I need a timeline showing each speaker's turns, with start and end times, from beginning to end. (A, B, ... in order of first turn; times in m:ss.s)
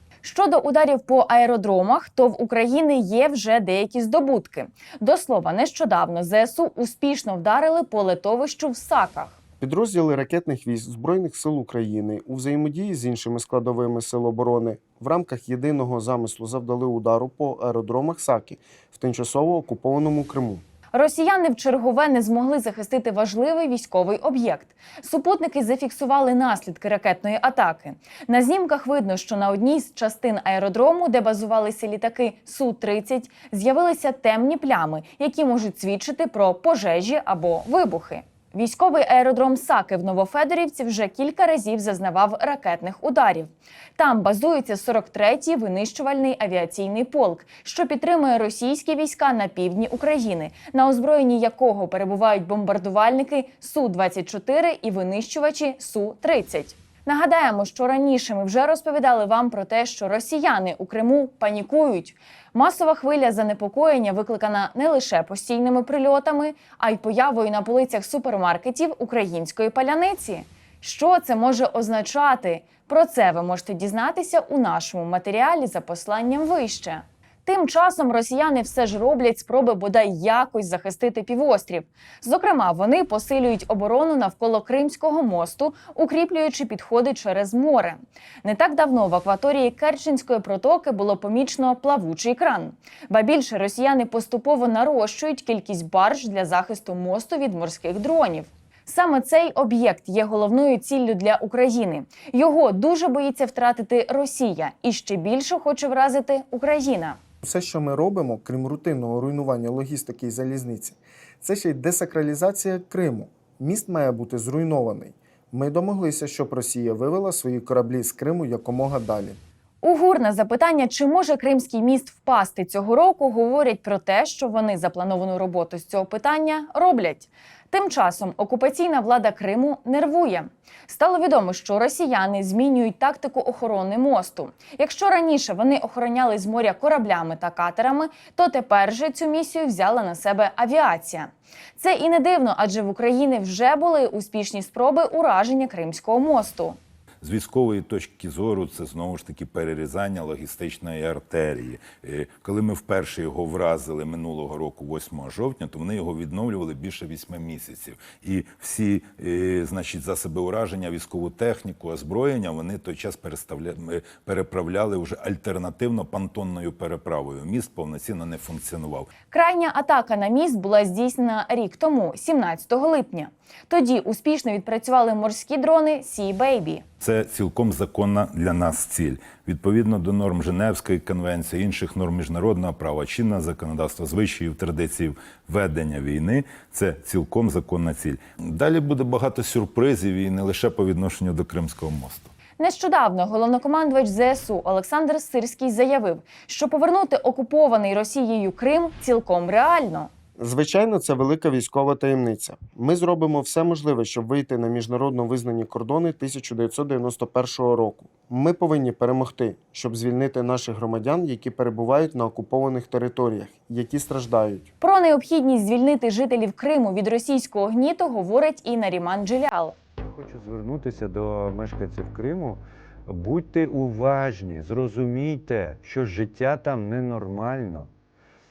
0:00.2-0:09.4 A
0:09.6-0:20.6 B
0:20.9-1:47.2 A
1:47.4-1:59.4 B
1:59.8-2:26.8 A
2:27.2-2:49.1 C
2:49.3-2:56.8 A
2:57.0-3:12.3 C
3:12.6-3:20.1 A
3:20.4-3:34.7 B
3:34.8-3:39.8 A
3:40.0-3:47.9 D